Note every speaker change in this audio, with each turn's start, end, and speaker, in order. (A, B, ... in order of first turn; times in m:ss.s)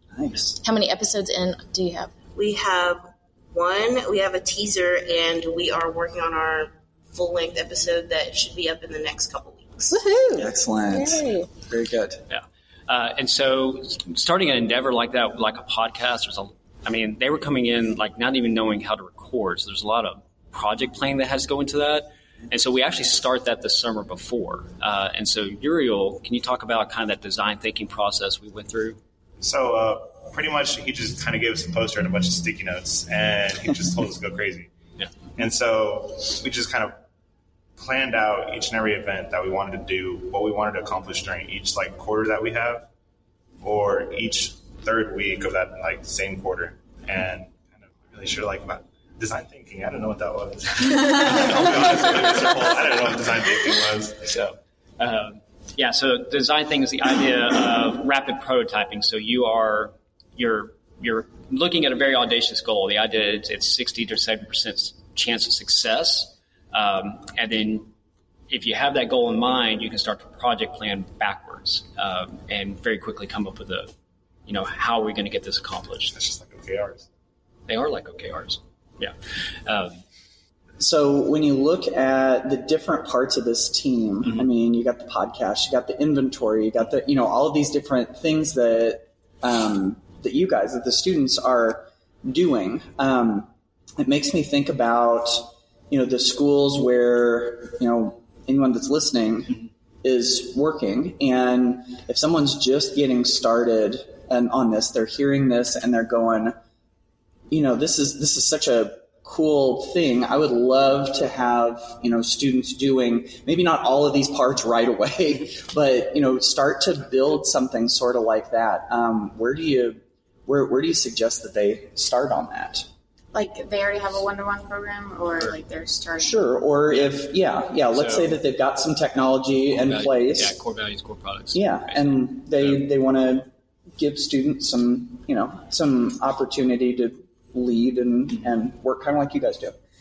0:00.1-0:00.5 A
0:00.6-0:02.1 B
0:02.3-0:09.8 C
0:09.9-0:11.5 B
0:10.3-0:12.2 A
0:12.3-0:29.0 D
0:29.4-0:34.7 E
0:35.4-0:37.0 E
0:37.8-0:42.9 E
0:43.6-0:54.2 E
0:54.2-1:07.9 D
1:08.5-1:13.9 D
1:14.5-1:16.1 D
1:16.1-1:17.1 E
1:17.7-1:19.1 D
1:19.6-1:20.0 D
1:20.8-1:33.5 A
1:34.0-1:46.5 A
1:47.5-2:02.8 A
2:03.3-2:06.6 F
2:06.2-2:10.5 A
2:06.9-2:07.2 D
2:07.9-2:08.4 D
2:09.7-2:12.8 D
2:11.5-2:19.7 A